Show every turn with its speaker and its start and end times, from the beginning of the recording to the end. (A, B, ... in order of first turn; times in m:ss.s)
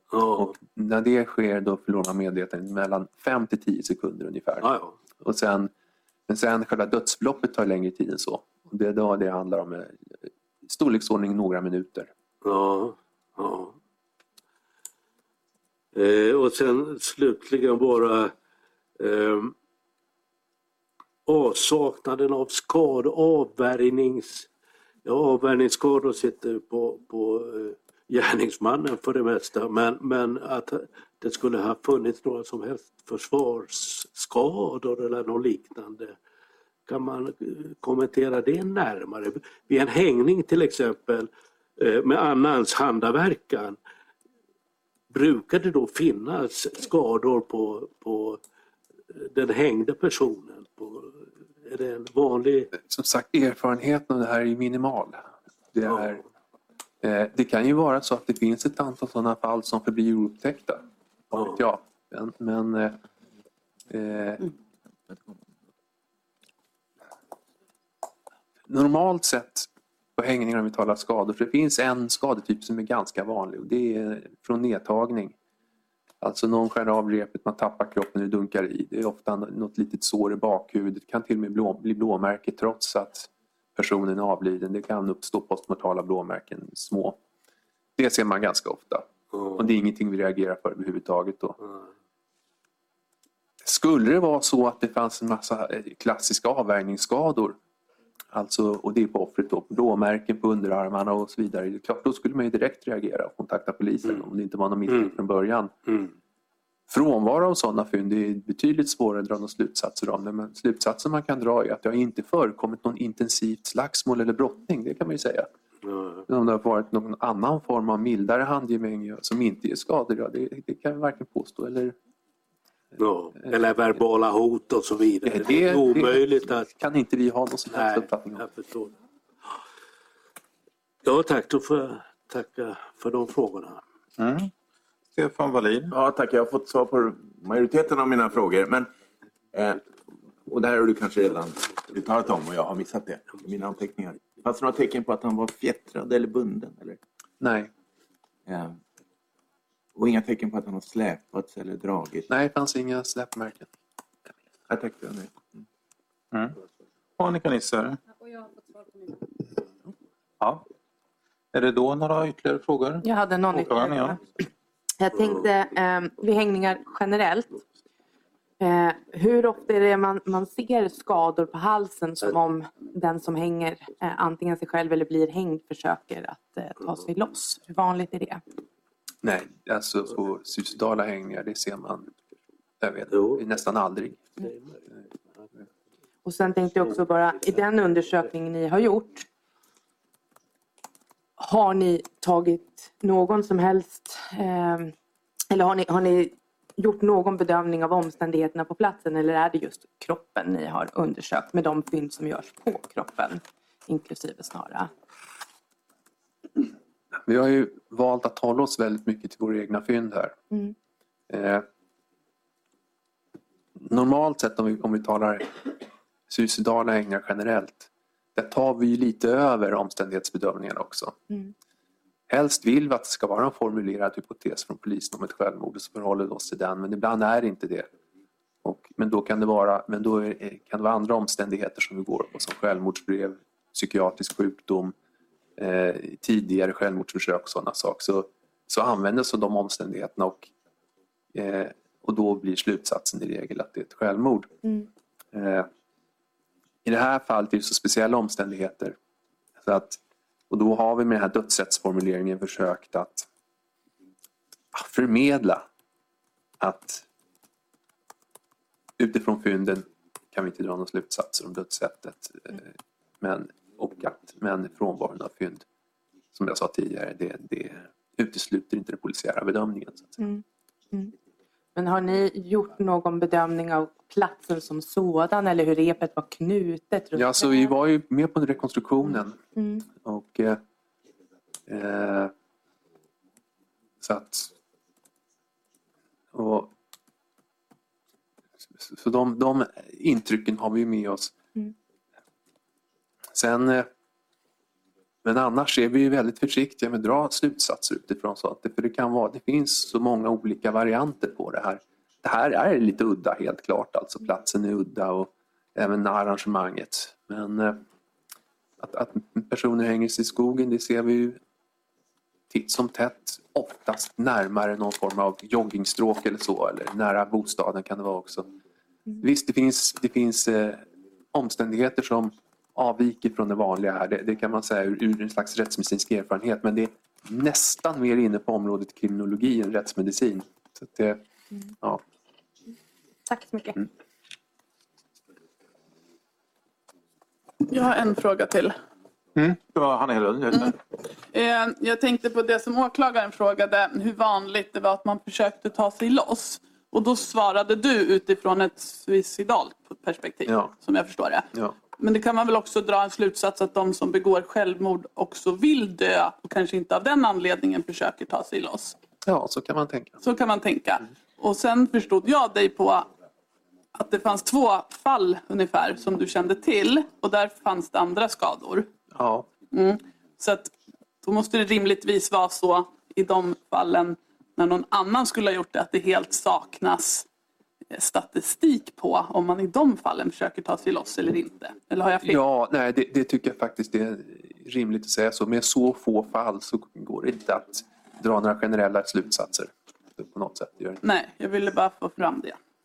0:00.1-0:00.5 A
0:00.4-0:05.7 B
0:04.6-0:04.9 A
0:06.3-0:12.1 B
0:12.4-0:13.8 A
0:15.9-0:18.3 A
0:19.0-0:19.5 A
0:21.3-0:24.5 A
0:25.0-0:36.2 A
0:36.9-0:43.8 A
0:45.1-0:48.4 A
0:49.1-0:52.7 A
0:52.8-0:56.2 B
0:57.0-1:03.0 B
1:03.9-1:04.5 B
1:08.7-1:15.4 B
1:16.2-1:27.2 B
1:28.0-1:31.6 B
1:33.6-1:37.6 B
1:38.3-1:45.7 B
1:46.9-1:55.5 B
1:55.9-1:56.2 A
1:56.3-2:02.0 B
2:03.0-2:06.7 A
2:05.2-2:08.4 B
2:07.7-2:08.9 A
2:11.0-2:13.8 A
2:14.2-2:14.5 C
2:15.2-2:15.9 C
2:15.9-2:18.9 D
2:19.5-2:19.9 D
2:20.4-2:27.0 D
2:27.4-2:27.7 B
2:28.5-2:28.8 D
2:30.0-2:32.3 D
2:32.3-2:33.7 B
2:34.7-2:35.5 D
2:36.3-2:36.6 C
2:37.2-2:38.0 C
2:41.5-2:44.2 C
2:43.0-2:44.2 E
2:45.0-2:47.6 E
2:48.6-2:58.4 E
2:59.2-3:02.2 B
3:02.8-3:04.4 B
3:03.1-3:03.4 A
3:06.2-3:09.3 E
3:11.4-3:14.9 E
3:15.5-3:24.9 E
3:27.2-3:30.4 B
3:31.3-3:31.7 B
3:33.8-3:41.2 B
3:42.3-3:47.9 B
3:48.6-3:54.9 B
3:55.6-4:00.5 B
4:01.3-4:04.5 B
4:05.3-4:05.7 B
4:06.8-4:09.0 B
4:09.6-4:13.3 B
4:14.7-4:15.7 B
4:16.6-4:17.0 B
4:19.0-4:25.6 B
4:26.3-4:30.2 B
4:30.2-4:31.1 E
4:31.8-4:37.7 E
4:37.2-4:40.6 B
4:39.6-4:39.8 E
4:41.7-4:42.3 B
4:44.0-4:44.5 B
4:46.3-4:46.7 B
4:48.8-4:51.3 B
4:53.3-4:53.9 B
4:55.2-5:07.8 B
5:08.8-5:11.4 B
5:12.5-5:18.5 B
5:19.2-5:31.2 B
5:33.3-5:33.8 E
5:37.7-5:38.8 F
5:39.4-5:40.8 C
5:41.3-5:51.5 F
5:50.5-5:50.7 B
5:52.0-5:59.0 F
5:59.2-6:00.2 B
6:00.2-6:03.1 F
6:04.0-6:08.9 F
6:09.1-6:09.5 B
6:09.7-6:17.3 F
6:17.9-6:22.4 F
6:22.2-6:31.0 B
6:31.0-6:32.6 F